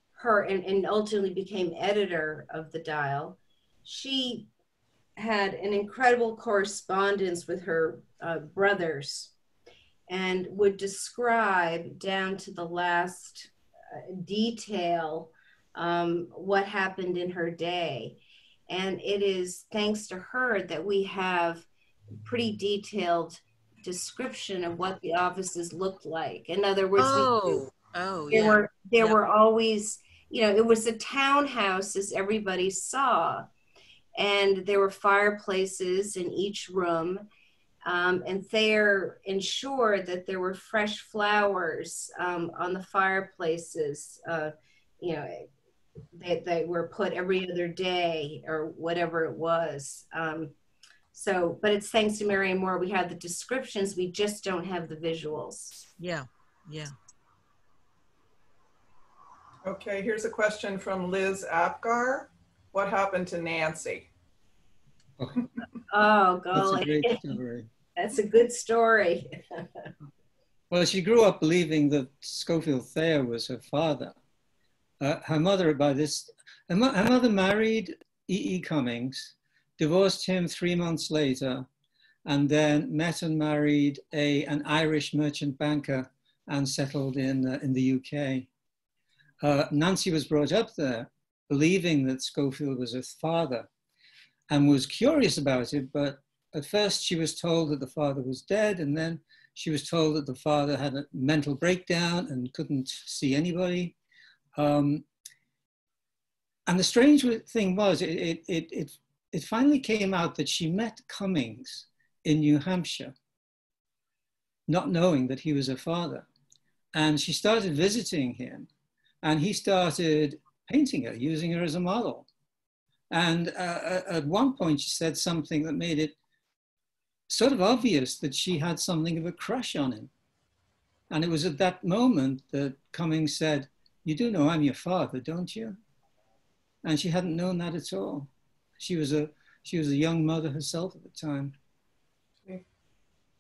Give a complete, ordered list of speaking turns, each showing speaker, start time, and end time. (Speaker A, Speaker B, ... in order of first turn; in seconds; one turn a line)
Speaker A: 0.1-4.5
Speaker A: 5.2-9.3
Speaker A: 10.1-21.7
Speaker A: 22.2-27.6
Speaker B: 27.0-29.2
Speaker A: 28.3-33.5
Speaker A: 34.2-37.3
Speaker A: 37.9-45.5
Speaker A: 46.1-50.5
Speaker A: 51.1-55.9
Speaker B: 56.0-56.9
Speaker C: 59.6-64.1
Speaker D: 65.2-65.5
Speaker A: 65.9-67.4
Speaker D: 66.5-67.7
Speaker A: 68.0-69.9
Speaker D: 70.7-74.2
Speaker D: 75.0-81.7
Speaker D: 82.3-88.5
Speaker D: 89.4-93.7
Speaker D: 94.5-104.0
Speaker D: 104.6-105.0
Speaker D: 106.7-113.1
Speaker D: 114.7-116.3
Speaker D: 116.9-118.7
Speaker D: 119.2-122.3
Speaker D: 123.1-126.2
Speaker D: 127.3-130.1
Speaker D: 131.1-135.8
Speaker D: 136.8-141.6